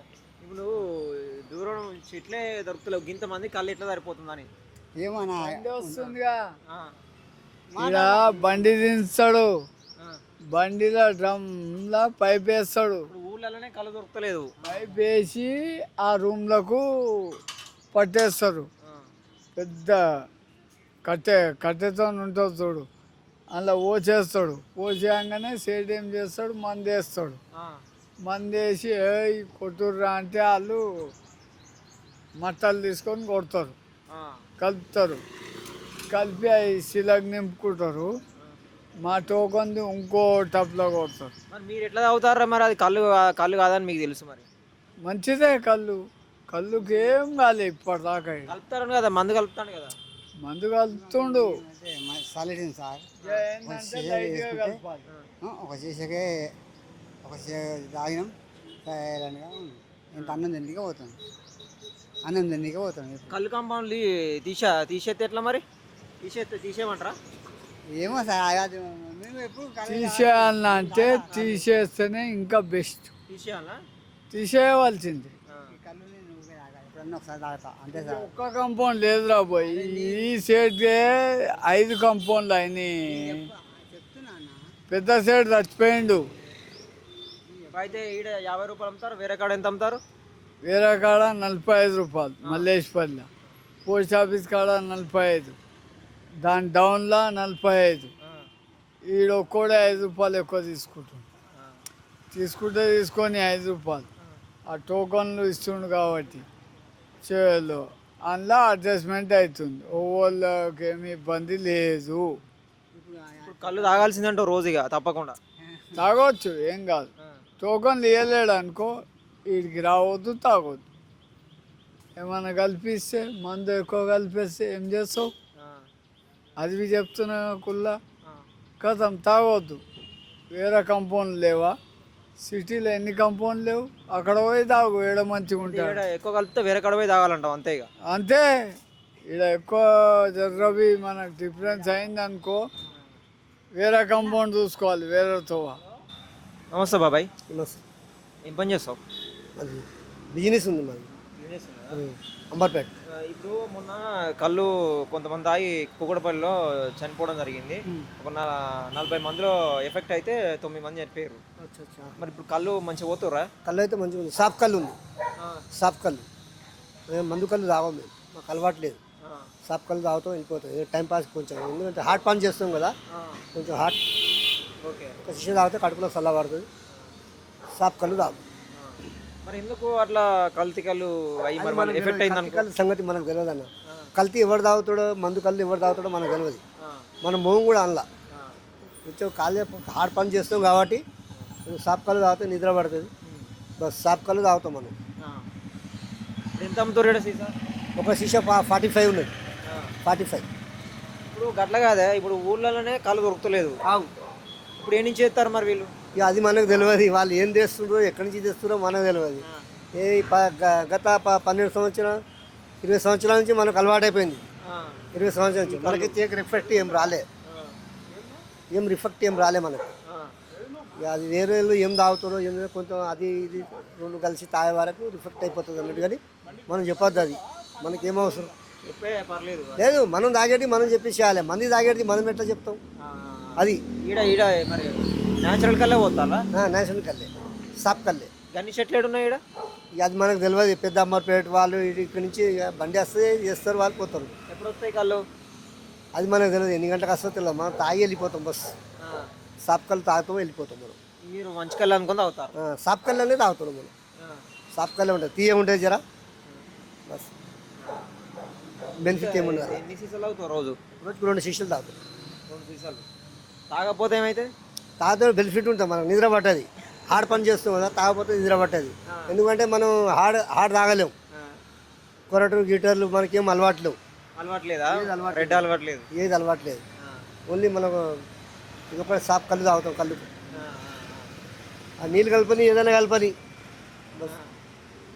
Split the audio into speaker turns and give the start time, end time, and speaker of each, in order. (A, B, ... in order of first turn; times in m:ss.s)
0:00.4-0:04.5 A
0:05.0-0:06.1 B
0:05.4-0:06.4 C
0:06.7-0:07.0 A
0:07.7-0:08.8 B
0:07.8-0:09.5 C
0:10.5-0:13.1 C
0:13.1-0:14.5 A
0:14.6-0:15.0 B
0:14.7-0:17.4 C
0:17.9-0:18.7 C
0:18.8-0:19.1 A
0:19.6-0:20.0 C
0:21.1-0:22.9 C
0:23.6-0:27.4 C
0:27.5-0:27.8 A
0:28.3-0:31.1 C
0:32.4-0:33.8 C
0:34.1-0:34.4 A
0:34.6-0:35.2 C
0:36.1-0:38.1 C
0:39.0-0:41.3 C
0:41.5-0:44.5 A
0:45.1-0:46.0 C
0:46.5-0:48.5 C
0:48.5-0:50.0 A
0:50.4-0:51.6 C
0:50.9-0:53.1 B
0:53.2-0:55.0 C
0:53.7-0:54.8 B
0:55.4-0:56.5 B
0:57.2-0:58.3 B
0:58.9-1:01.2 B
1:00.2-1:00.4 A
1:02.3-1:03.4 B
1:03.3-1:05.6 A
1:06.2-1:07.2 A
1:07.9-1:11.7 B
1:09.9-1:13.1 C
1:11.3-1:11.6 A
1:13.3-1:13.8 A
1:14.3-1:15.3 C
1:15.5-1:15.8 A
1:15.7-1:18.3 B
1:17.9-1:23.4 C
1:19.6-1:20.3 B
1:23.1-1:24.6 B
1:24.9-1:26.2 C
1:27.4-1:28.0 B
1:27.7-1:30.0 A
1:30.7-1:33.3 C
1:33.9-1:35.6 C
1:36.4-1:38.1 C
1:38.2-1:38.5 A
1:39.1-1:41.3 C
1:41.5-1:41.8 A
1:42.3-1:44.1 C
1:44.7-1:46.4 C
1:47.2-1:52.4 C
1:52.9-1:54.2 B
1:53.4-1:55.4 A
1:55.6-1:56.1 B
1:56.0-1:57.1 C
1:57.6-1:58.9 C
1:59.5-2:00.8 C
2:02.2-2:05.3 C
2:05.6-2:05.9 A
2:06.6-2:08.0 C
2:08.8-2:09.8 C
2:10.5-2:11.8 C
2:12.4-2:16.0 C
2:15.6-2:17.9 A
2:18.1-2:18.5 C
2:19.3-2:22.6 C
2:23.8-2:25.8 C
2:26.7-2:27.3 A
2:27.5-2:27.8 D
2:28.5-2:29.0 A
2:29.6-2:31.1 D
2:31.4-2:32.0 A
2:32.0-2:32.9 D
2:33.2-2:41.4 A
2:41.6-2:42.1 D
2:42.2-2:43.5 A
2:43.6-2:45.0 D
2:45.7-2:46.3 D
2:47.1-2:49.0 D
2:49.2-2:49.5 A
2:49.7-2:53.0 D
2:53.1-2:53.4 A
2:53.6-2:54.1 D
2:54.8-2:55.2 A
2:55.2-2:56.7 D
2:57.8-2:58.4 D
2:58.8-3:02.7 A
3:01.6-3:06.6 D
3:06.8-3:07.1 A
3:07.2-3:08.1 D
3:08.3-3:08.6 A
3:09.1-3:11.0 D
3:11.7-3:13.1 D
3:13.2-3:13.5 A
3:13.8-3:15.0 D
3:16.6-3:17.5 A
3:18.0-3:19.3 D
3:19.7-3:19.9 A
3:20.0-3:20.5 D
3:21.3-3:23.8 A
3:24.8-3:25.9 A
3:26.2-3:32.2 D
3:32.8-3:34.4 D
3:34.6-3:35.0 A
3:35.1-3:37.3 D
3:35.8-3:36.1 A
3:37.5-3:37.8 A
3:38.7-3:39.9 D
3:40.1-3:40.4 A
3:41.0-3:48.5 D
3:48.8-3:49.9 A
3:49.8-3:52.8 D
3:53.0-3:56.4 A
3:56.5-3:58.3 D
3:58.5-3:59.4 A
4:00.0-4:04.3 D
4:04.5-4:05.2 A
4:06.2-4:08.7 D
4:09.0-4:09.3 A
4:09.6-4:11.0 D
4:11.2-4:12.5 A
4:12.6-4:13.9 D
4:14.7-4:16.0 D
4:19.0-4:19.8 D
4:19.1-4:20.8 A
4:21.0-4:22.0 D
4:22.5-4:23.0 A
4:23.7-4:24.5 A
4:25.0-4:31.1 D
4:29.1-4:29.4 A
4:31.3-4:31.6 A
4:32.3-4:34.0 D
4:34.4-4:36.1 A
4:34.9-4:35.6 D
4:36.2-4:36.8 D
4:37.5-4:38.2 D
4:38.9-4:40.3 D
4:40.5-4:41.3 A
4:42.0-4:43.4 D
4:44.3-4:44.5 A